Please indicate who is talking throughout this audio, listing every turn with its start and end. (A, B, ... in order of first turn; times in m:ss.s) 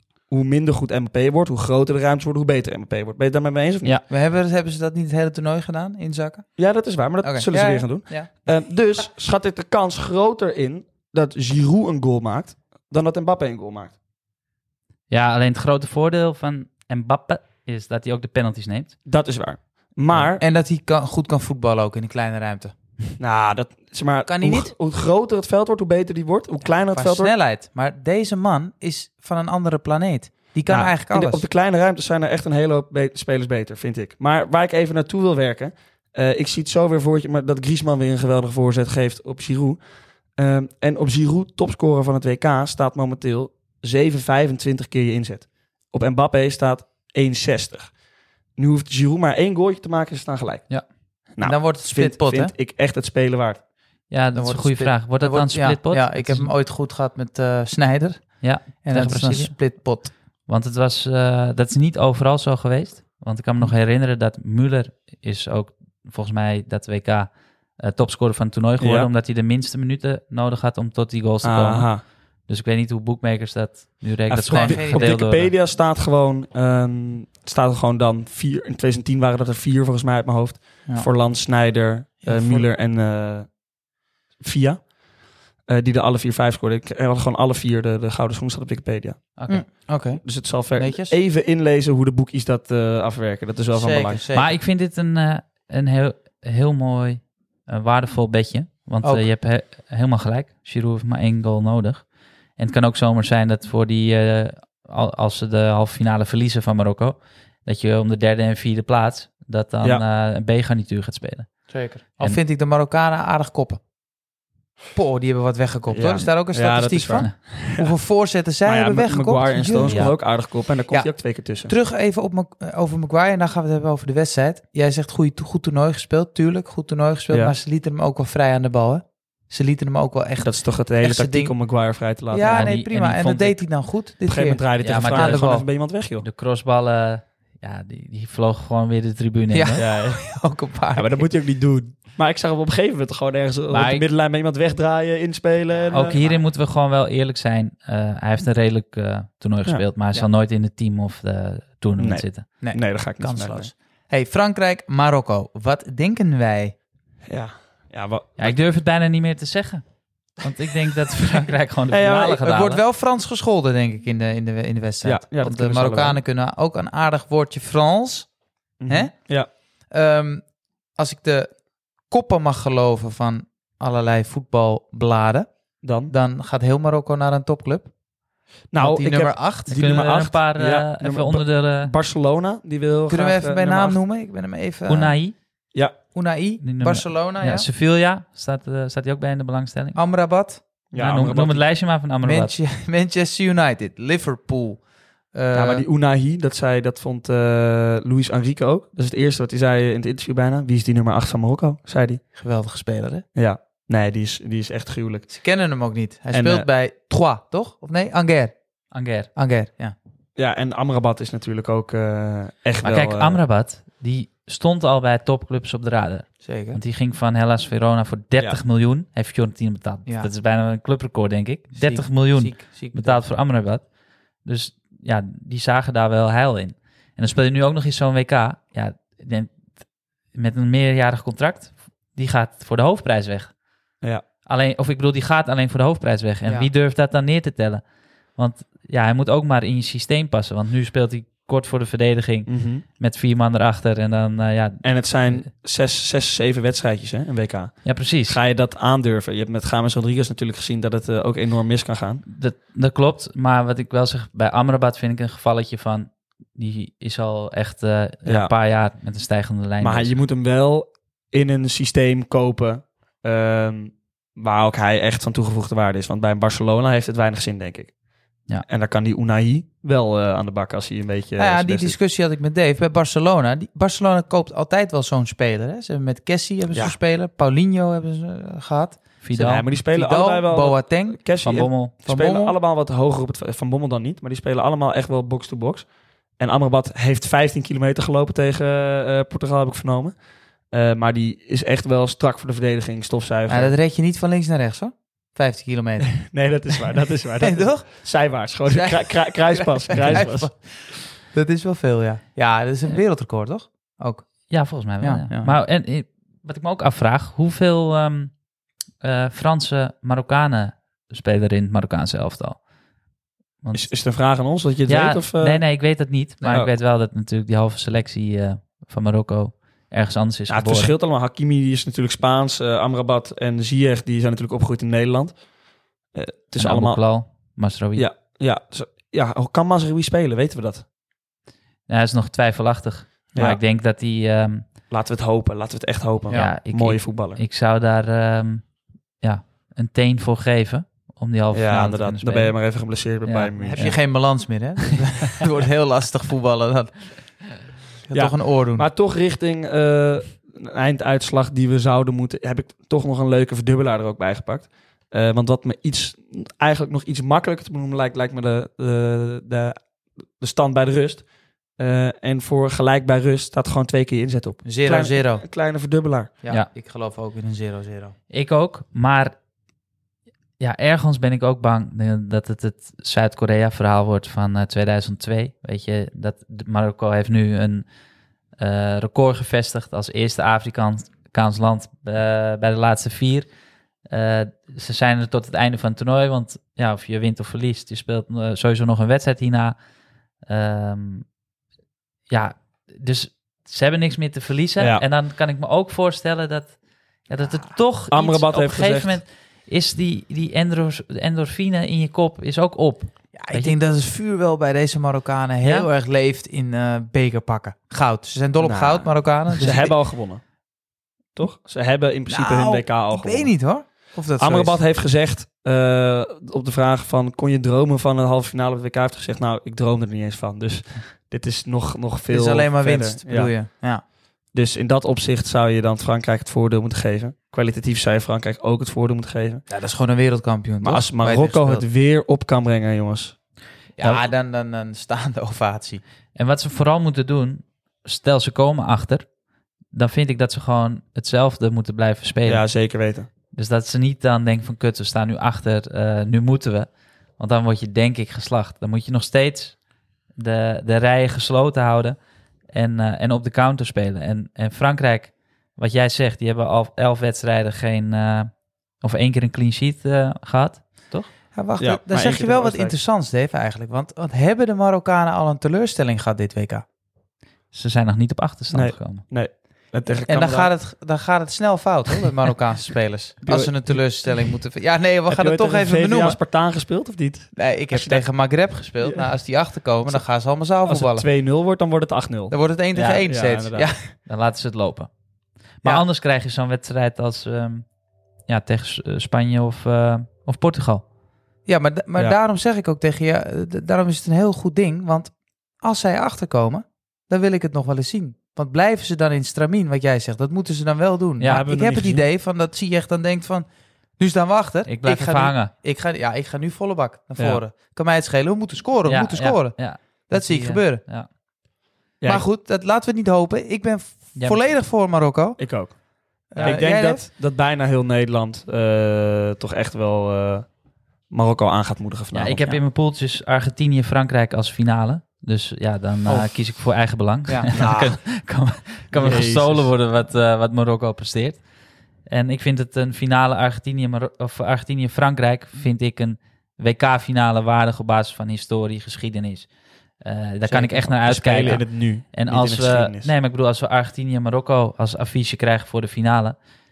0:00.3-0:04.0 A
0:04.1-0:06.5 B
0:06.6-0:14.0 A
0:07.2-0:08.4 B
0:15.1-0:19.0 C
0:19.1-0:20.4 A
0:20.2-0:22.7 B
0:23.2-0:27.4 A
0:24.3-0:24.7 B
0:26.8-0:31.4 B
0:30.7-0:39.8 A
0:40.4-0:48.0 A
0:48.6-0:50.7 A
0:51.3-0:53.6 A
0:51.4-0:52.6 B
0:54.1-0:56.5 C
0:54.3-1:00.1 B
0:58.4-0:59.7 C
1:00.5-1:15.5 C
1:08.8-1:09.1 A
1:11.4-1:12.0 A
1:14.3-1:23.6 A
1:14.5-1:15.2 B
1:22.2-1:22.7 B
1:24.4-1:24.9 A
1:25.7-1:34.2 A
1:29.5-1:31.2 B
1:33.7-1:34.6 B
1:34.3-1:51.7 C
1:39.0-1:39.3 B
1:51.7-1:53.8 B
1:54.9-2:00.4 B
1:55.9-1:57.9 A
1:58.6-2:01.7 A
1:59.8-2:00.2 C
2:00.9-2:11.6 B
2:07.3-2:07.6 A
2:10.4-2:12.8 A
2:12.3-2:15.7 B
2:12.4-2:13.6 C
2:14.3-2:16.2 A
2:14.8-2:15.6 C
2:16.2-2:19.8 C
2:19.5-2:21.3 B
2:19.8-2:20.2 A
2:20.9-2:26.2 A
2:23.7-2:24.1 C
2:25.7-2:26.5 B
2:25.9-2:32.5 C
2:32.0-2:33.7 A
2:32.6-2:36.8 B
2:37.3-2:38.6 A
2:38.4-2:42.8 C
2:41.9-2:42.4 A
2:42.2-2:48.4 B
2:45.0-2:46.2 A
2:48.8-2:49.5 A
2:48.9-2:49.1 B
2:49.9-2:57.9 B
2:55.8-2:56.1 A
2:58.7-3:04.0 A
2:58.8-2:59.8 B
2:59.7-3:01.9 C
3:03.1-3:05.2 B
3:04.9-3:05.4 C
3:06.1-3:07.7 B
3:06.6-3:10.0 C
3:10.0-3:10.6 B
3:10.9-3:11.7 A
3:11.0-3:12.5 C
3:12.2-3:15.9 B
3:15.5-3:22.2 A
3:22.4-3:23.2 B
3:23.4-3:25.3 A
3:25.3-3:28.6 B
3:26.3-3:26.7 A
3:28.9-3:29.3 C
3:29.4-3:30.0 B
3:30.4-3:33.4 A
3:32.8-3:43.8 C
3:36.4-3:36.8 B
3:41.7-3:43.2 B
3:44.4-3:49.6 C
3:50.3-3:53.5 C
3:54.5-3:57.8 C
3:56.4-3:56.7 B
3:58.4-4:05.4 C
4:02.5-4:02.8 A
4:04.8-4:12.2 A
4:07.8-4:08.4 C
4:12.3-4:20.2 C
4:18.2-4:18.5 A
4:19.8-4:28.0 A
4:28.6-4:32.0 A
4:31.4-4:41.4 B
4:36.7-4:37.0 A
4:39.2-4:39.7 C
4:39.4-4:53.8 A
4:41.4-4:41.9 C
4:42.0-4:42.6 B
4:53.5-4:56.3 B
4:56.2-5:00.5 A
4:57.4-4:58.1 B
4:58.7-5:04.3 B
5:04.5-5:08.4 C
5:05.0-5:05.5 B
5:09.0-5:12.6 C
5:13.6-5:13.9 C
5:13.7-5:15.6 A
5:14.9-5:20.9 C
5:20.5-5:25.4 A
5:26.1-5:27.1 A
5:26.6-5:28.1 C
5:28.0-5:30.9 A
5:31.9-5:34.7 C
5:33.4-5:33.6 A
5:34.9-5:37.4 A
5:36.3-5:36.5 B
5:36.3-5:44.2 C
5:41.5-5:44.0 A
5:43.6-5:47.4 B
5:48.1-5:48.9 B
5:48.1-6:06.3 A
6:04.6-6:05.5 B
6:06.4-6:08.2 B
6:08.3-6:09.4 C
6:10.6-6:17.9 C
6:18.6-6:23.5 C
6:24.1-6:29.8 C
6:30.5-6:31.3 C
6:32.3-6:43.8 C
6:34.8-6:35.0 A
6:37.4-6:37.7 B
6:38.1-6:39.2 A
6:43.4-6:50.0 B
6:45.6-6:45.9 C
6:48.6-6:50.4 A
6:51.4-6:53.6 A
6:52.3-6:54.8 B
6:54.4-7:03.5 A
7:02.3-7:04.0 B
7:04.5-7:09.6 A
7:09.7-7:11.9 B
7:10.8-7:13.4 A
7:14.0-7:16.0 B
7:16.4-7:19.3 C
7:19.9-7:22.7 C
7:22.5-7:23.3 A
7:23.5-7:29.8 C
7:30.4-7:32.2 C
7:32.7-7:41.3 C
7:41.5-7:46.8 B
7:41.8-7:43.0 A
7:47.7-7:49.2 C
7:48.7-7:50.7 A
7:50.3-7:56.4 B
7:53.4-7:54.6 A
7:55.3-7:59.4 A
7:57.6-8:01.3 B
8:00.9-8:02.6 A
8:02.5-8:04.1 B
8:03.0-8:03.2 C
8:03.2-8:03.9 A
8:04.3-8:05.1 C
8:05.8-8:07.9 C
8:08.5-8:11.0 C
8:11.7-8:31.0 B
8:21.4-8:22.3 A
8:24.9-8:25.7 C
8:27.4-8:27.6 A
8:29.1-8:31.3 C
8:32.2-8:32.5 A
8:32.3-8:35.9 B
8:34.4-8:34.6 C
8:35.6-8:36.0 A
8:36.5-8:40.8 A
8:36.5-8:37.3 B
8:36.6-8:36.8 C
8:41.3-8:42.6 A
8:42.3-8:51.6 C
8:42.5-8:42.8 B
8:46.3-8:46.6 B
8:47.7-8:48.2 A
8:49.1-8:49.9 A
8:52.3-8:59.7 C
9:00.2-9:06.6 C
9:00.6-9:01.0 B
9:01.0-9:03.3 A